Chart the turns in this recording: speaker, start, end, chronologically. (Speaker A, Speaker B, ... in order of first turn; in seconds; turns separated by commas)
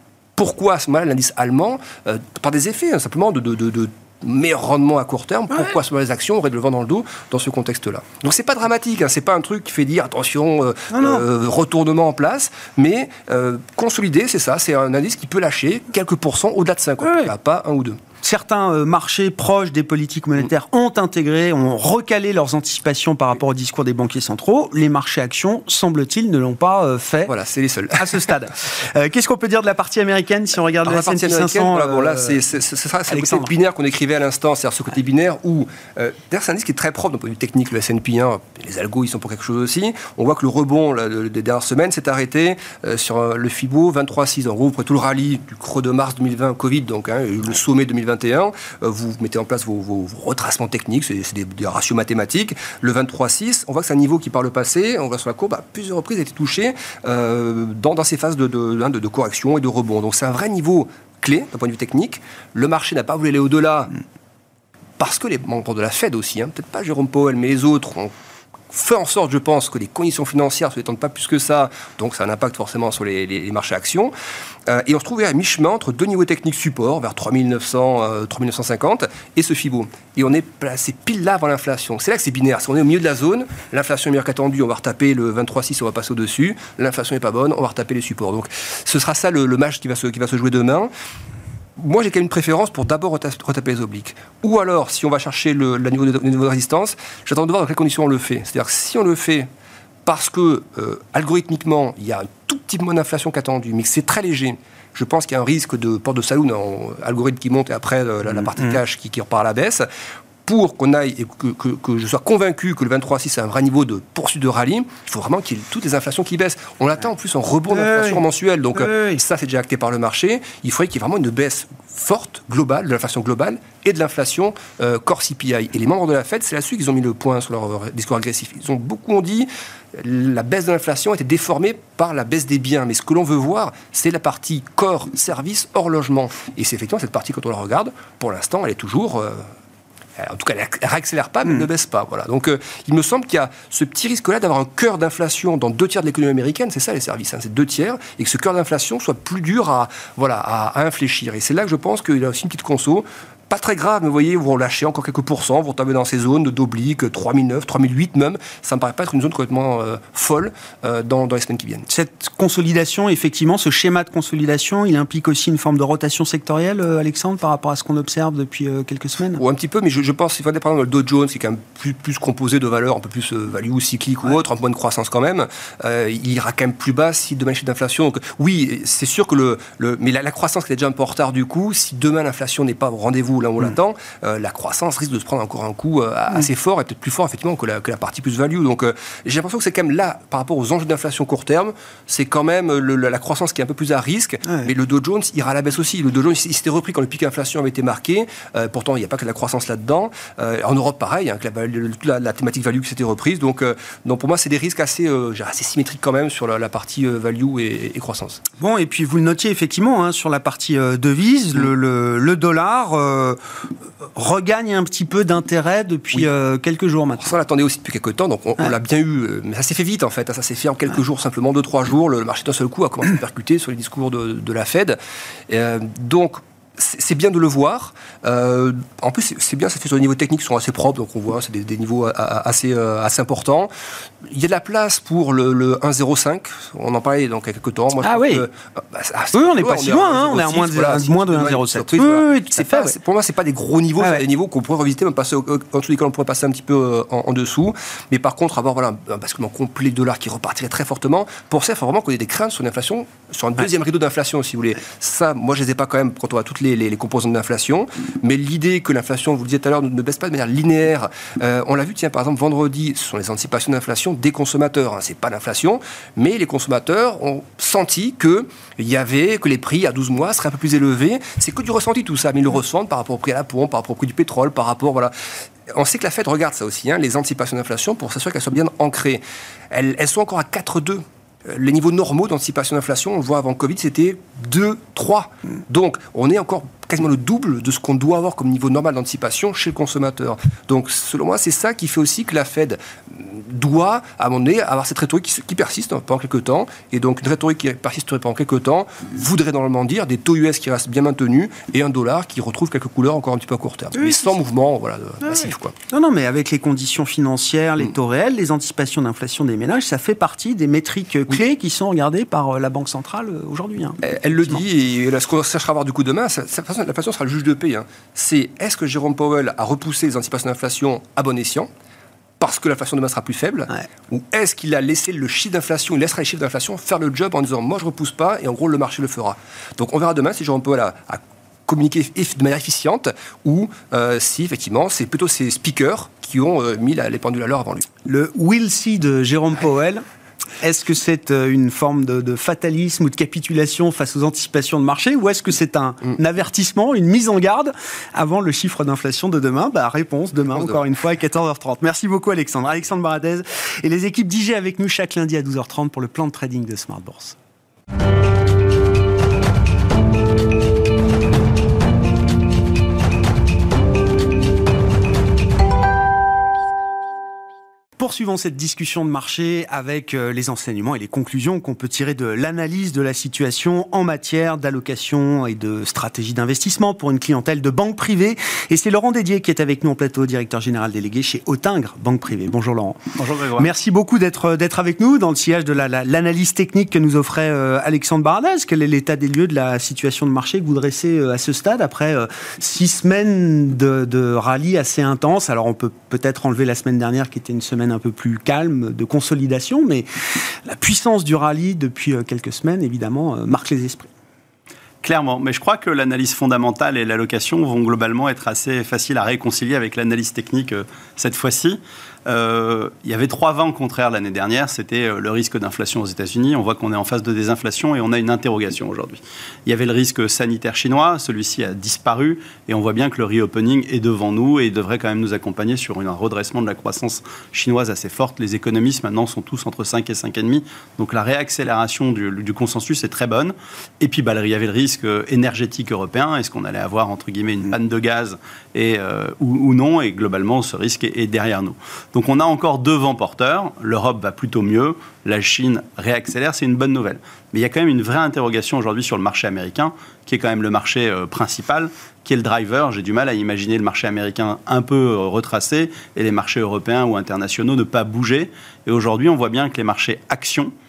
Speaker A: 0.4-18.0, Speaker B: 10.9-11.2, Speaker B: 17.0-17.3, Speaker B: 18.2-27.3, Speaker A: 27.2-28.3, Speaker B: 28.0-32.4, Speaker A: 30.8-63.9, Speaker B: 33.1-33.5, Speaker A: 65.0-68.1, Speaker A: 68.7-74.1, Speaker A: 74.7-90.9, Speaker A: 91.8-99.5, Speaker A: 100.0-109.8, Speaker A: 110.4-139.4, Speaker B: 117.8-118.2, Speaker B: 118.8-119.2, Speaker A: 140.2-161.9, Speaker B: 161.9-169.4, Speaker A: 169.4-208.4, Speaker B: 208.6-213.4, Speaker B: 214.2-217.3, Speaker A: 217.2-225.0, Speaker A: 225.5-233.7, Speaker A: 234.2-275.1, Speaker B: 238.0-238.4, Speaker B: 239.3-242.9, Speaker A: 275.7-305.7, Speaker B: 304.0-304.3, Speaker B: 305.2-314.6, Speaker A: 314.0-321.7, Speaker A: 322.4-337.9, Speaker B: 338.0-340.0, Speaker B: 340.6-357.4, Speaker B: 368.0-383.0, Speaker C: 383.2-383.7, Speaker B: 383.6-400.1, Speaker B: 400.7-404.1, Speaker C: 405.0-460.7